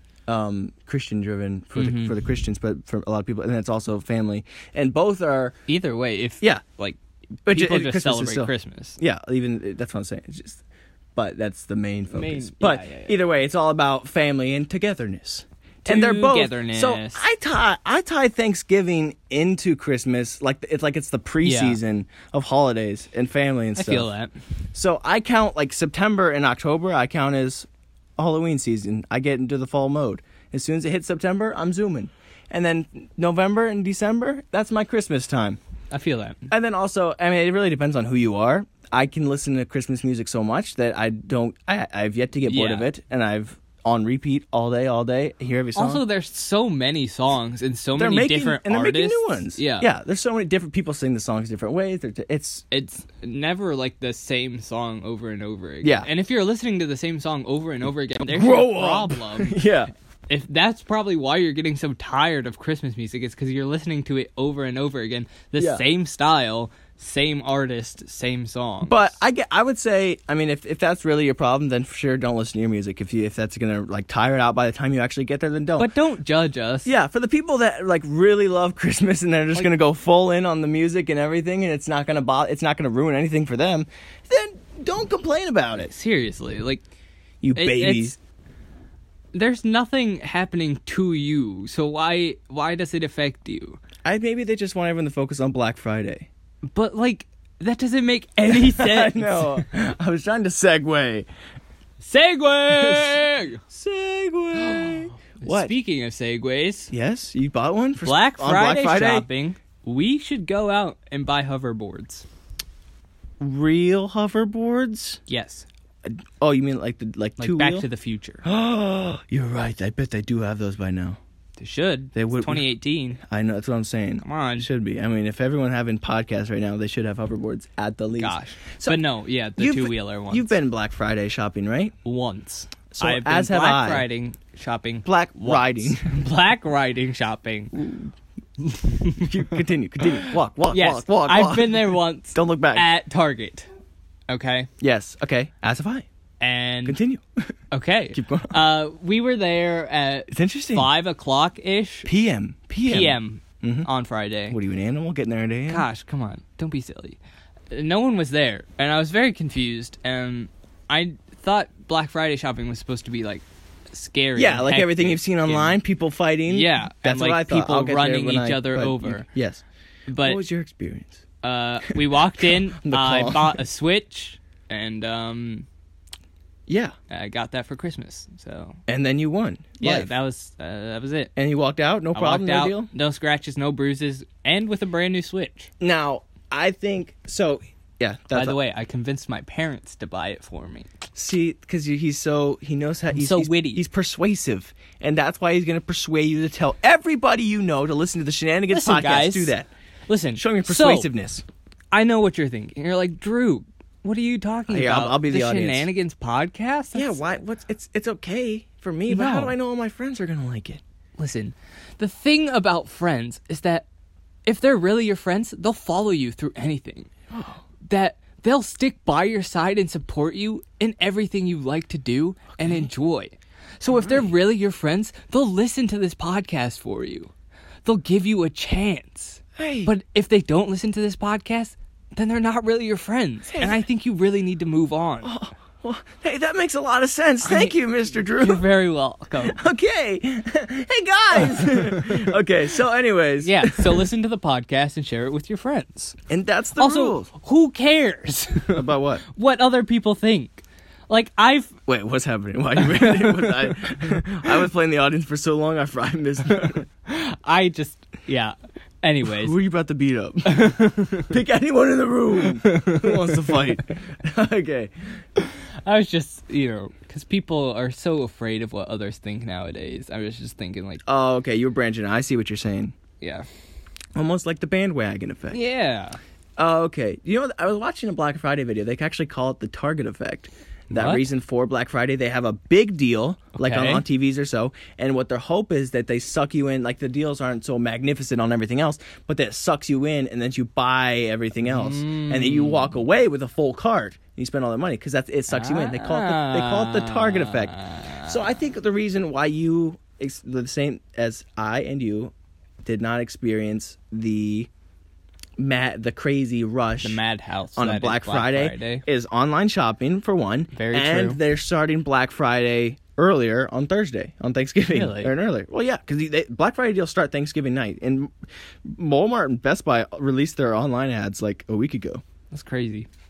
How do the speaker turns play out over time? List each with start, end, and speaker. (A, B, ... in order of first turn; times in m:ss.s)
0:00.3-0:05.6 A
0:01.8-0:02.2 B
0:05.7-0:09.0 B
0:07.5-0:10.6 A
0:11.2-0:24.1 A
0:12.1-0:13.2 B
0:15.8-0:17.3 B
0:21.4-0:21.8 B
0:23.8-0:24.4 B
0:24.7-0:35.6 A
0:35.9-0:36.5 B
0:36.5-0:46.0 A
0:42.5-0:42.9 B
0:45.8-0:49.9 B
0:48.0-0:52.6 A
0:52.7-0:59.6 B
0:55.8-0:56.1 A
0:58.3-0:59.9 A
1:00.3-1:09.2 B
1:05.6-1:05.8 A
1:08.8-1:15.9 A
1:15.8-1:16.9 B
1:16.8-1:25.9 A
1:25.9-1:26.8 B
1:27.4-1:28.2 A
1:27.6-1:28.2 B
1:29.3-1:33.8 B
1:34.0-1:36.3 A
1:36.7-1:39.6 B
1:38.5-1:41.3 A
1:42.0-1:43.6 B
1:42.7-1:45.7 A
1:44.6-1:46.9 B
1:46.9-1:49.3 A
1:48.0-1:52.3 B
1:53.4-1:55.2 A
1:55.3-1:55.7 B
1:56.0-1:57.9 A
1:57.4-1:58.4 B
1:58.4-2:01.2 A
2:01.6-2:03.2 B
2:02.2-2:09.0 A
2:04.2-2:04.7 B
2:08.2-2:10.5 B
2:09.6-2:12.0 A
2:12.0-2:19.6 B
2:12.9-2:14.1 A
2:15.0-2:16.1 A
2:19.2-2:22.9 A
2:20.2-2:23.7 B
2:24.3-2:24.7 B
2:24.8-2:26.1 A
2:26.4-2:27.0 B
2:26.9-2:27.5 A
2:27.7-2:32.1 B
2:28.1-2:28.6 A
2:30.3-2:30.9 A
2:32.1-2:33.9 A
2:32.8-2:34.6 B
2:34.5-2:35.9 A
2:35.7-2:37.2 B
2:37.7-2:45.8 B
2:44.4-2:49.6 A
2:46.5-2:49.3 B
2:50.1-2:50.4 B
2:50.2-2:51.2 A
2:51.4-2:55.7 B
2:51.9-2:53.6 A
2:56.7-2:57.0 A
2:57.1-2:58.8 B
2:58.9-3:00.1 A
2:59.8-3:01.3 B
3:01.4-3:02.9 A
3:02.1-3:05.7 B
3:05.8-3:08.6 A
3:08.3-3:10.9 B
3:11.2-3:19.7 A
3:13.1-3:13.8 B
3:18.7-3:19.6 B
3:20.1-3:21.1 B
3:20.4-3:21.4 A
3:21.9-3:27.2 B
3:24.7-3:25.9 A
3:27.0-3:30.8 A
3:29.1-3:29.6 B
3:31.2-3:33.9 B
3:34.5-3:37.1 B
3:37.3-3:37.6 A
3:37.8-3:47.3 B
3:42.6-3:42.9 A
3:43.9-3:44.3 A
3:47.8-3:55.4 B
3:49.6-3:49.9 A
3:53.5-3:53.8 A
3:55.2-3:58.6 A
3:57.4-3:57.7 B
3:58.4-3:59.6 B
3:59.4-4:04.1 A
4:03.4-4:06.2 B
4:06.3-4:07.3 A
4:06.8-4:11.8 B
4:08.7-4:09.2 A
4:11.9-4:16.8 A
4:12.8-4:13.9 B
4:16.5-4:19.6 B
4:19.2-4:24.9 A
4:20.4-4:21.3 B
4:22.6-4:23.4 B
4:25.4-4:31.0 B
4:31.1-4:33.0 A
4:33.2-4:33.5 B
4:34.2-4:35.6 A
4:35.5-4:36.2 B
4:36.6-5:02.3 A
4:40.9-4:41.3 B
4:43.6-4:44.0 B
4:51.6-4:53.0 B
4:55.5-4:58.4 B
5:02.8-5:04.7 A
5:05.6-5:07.2 A
5:07.0-5:09.0 B
5:07.8-5:18.3 A
5:10.7-5:11.4 B
5:14.9-5:15.3 B
5:18.8-5:22.2 A
5:22.5-5:23.1 B